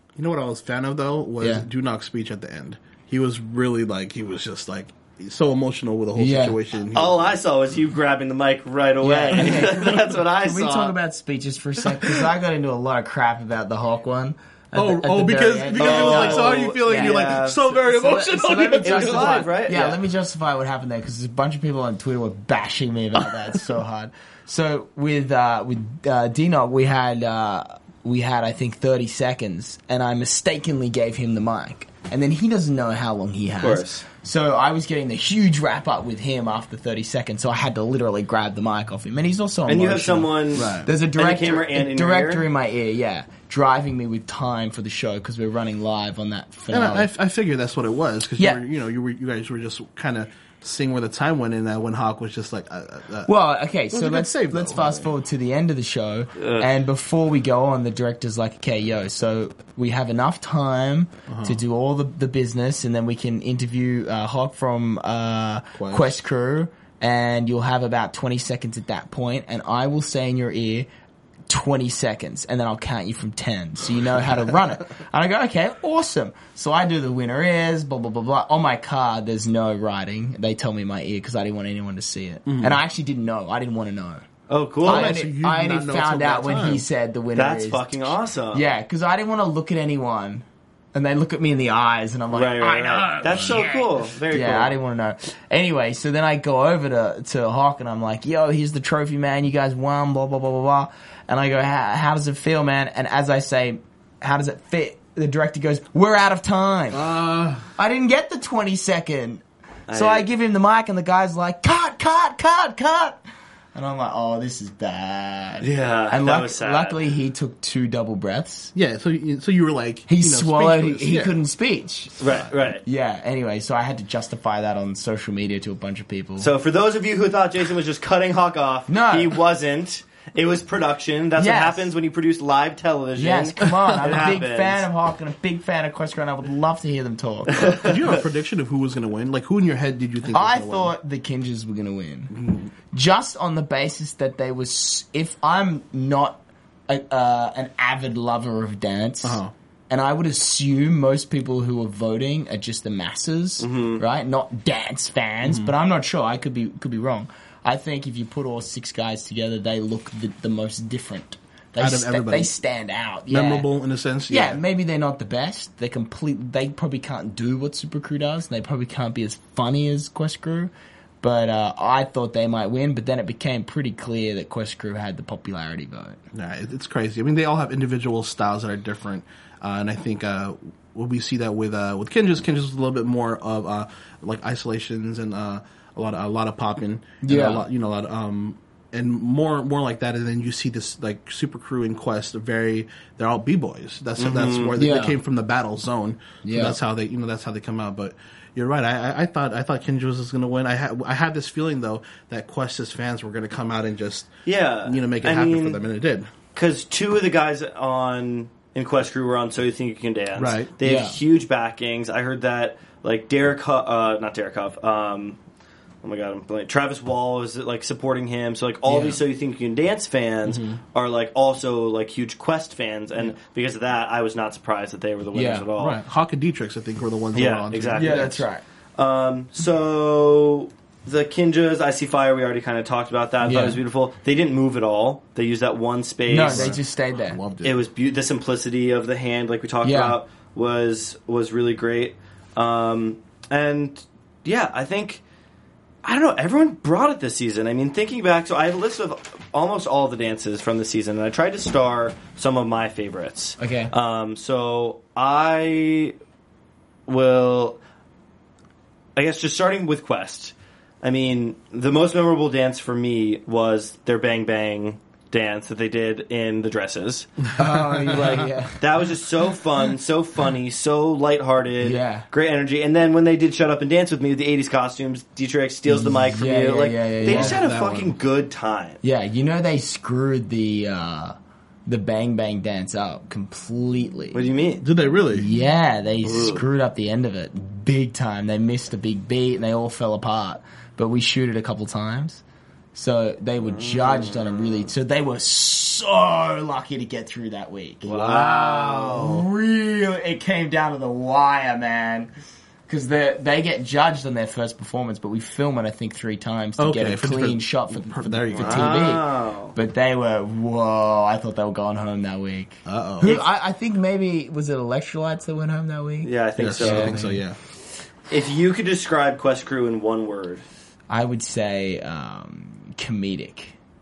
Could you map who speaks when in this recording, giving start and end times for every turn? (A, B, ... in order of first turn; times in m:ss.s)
0:00.2-0:07.4 A
0:01.4-0:01.7 B
0:06.2-0:06.6 B
0:06.9-0:10.9 C
0:09.0-0:47.1 B
0:09.4-0:09.7 A
0:14.8-0:19.5 A
0:15.7-0:17.6 C
0:18.8-0:20.0 C
0:33.6-0:34.0 C
0:39.7-0:42.5 C
0:40.6-0:40.9 A
0:46.7-0:53.3 A
0:53.3-1:10.9 B
0:53.9-0:55.1 A
0:56.4-0:56.7 C
1:01.3-1:01.6 A
1:05.8-1:06.2 A
1:11.5-1:24.2 B
1:22.5-1:22.8 A
1:24.5-1:25.2 C
1:24.8-1:26.8 A
1:24.8-1:47.1 B
1:27.4-1:28.7 C
1:32.3-1:34.8 C
1:46.9-1:47.7 A
1:47.8-1:53.2 B
1:49.9-1:50.3 C
1:53.7-1:58.7 B
1:55.6-1:57.0 C
1:58.8-2:01.4 A
2:00.1-2:02.2 B
2:02.2-2:02.8 C
2:02.2-2:02.5 A
2:02.8-2:06.5 B
2:06.4-2:14.9 C
2:08.9-2:09.4 B
2:11.4-2:11.9 B
2:13.2-2:17.8 B
2:17.5-2:18.0 C
2:17.6-2:20.9 A
2:20.3-2:22.4 B
2:22.3-2:22.7 A
2:22.9-2:43.7 B
2:29.2-2:29.5 A
2:33.6-2:34.0 C
2:35.4-2:35.7 A
2:41.8-2:42.5 A
2:43.3-2:44.6 A
2:44.3-2:56.2 B
2:56.3-3:24.3 A
3:07.2-3:07.7 B
3:14.2-3:14.8 C
3:14.8-3:15.2 B
3:16.4-3:16.8 B
3:24.5-3:25.8 C
3:24.8-3:26.3 A
3:26.5-3:35.4 C
3:30.4-3:30.7 A
3:30.8-3:31.2 B
3:36.0-3:46.0 C
3:38.9-3:39.2 B
3:40.5-3:40.8 A
3:45.3-3:45.7 B
3:45.8-3:48.4 A
3:47.3-3:48.4 C
3:48.0-3:48.6 B
3:49.0-3:56.8 C
3:53.4-3:53.8 B
3:56.3-3:57.4 B
3:56.4-3:57.8 A
3:57.6-4:05.2 C
3:59.8-4:00.2 B
4:06.0-4:16.2 C
4:13.6-4:13.9 B
4:17.1-4:17.8 C
4:19.2-4:27.3 C
4:27.6-4:28.9 B
4:28.1-4:39.0 C
4:31.8-4:32.3 B
4:35.9-4:37.6 B
4:37.2-4:38.2 A
4:39.0-4:41.4 B
4:41.9-4:44.5 B
4:44.3-4:44.8 C
4:44.8-4:45.5 A
4:45.3-4:52.4 B
4:46.2-4:46.6 C
4:52.9-5:02.3 B
4:53.6-4:54.7 C
4:58.0-4:59.4 C
4:58.0-4:59.5 A
5:02.9-5:17.4 B
5:06.8-5:09.1 A
5:08.6-5:09.8 C
5:12.9-5:13.4 A
5:16.2-5:17.2 C
5:16.6-5:17.6 A
5:18.3-5:20.6 C
5:21.1-5:23.8 B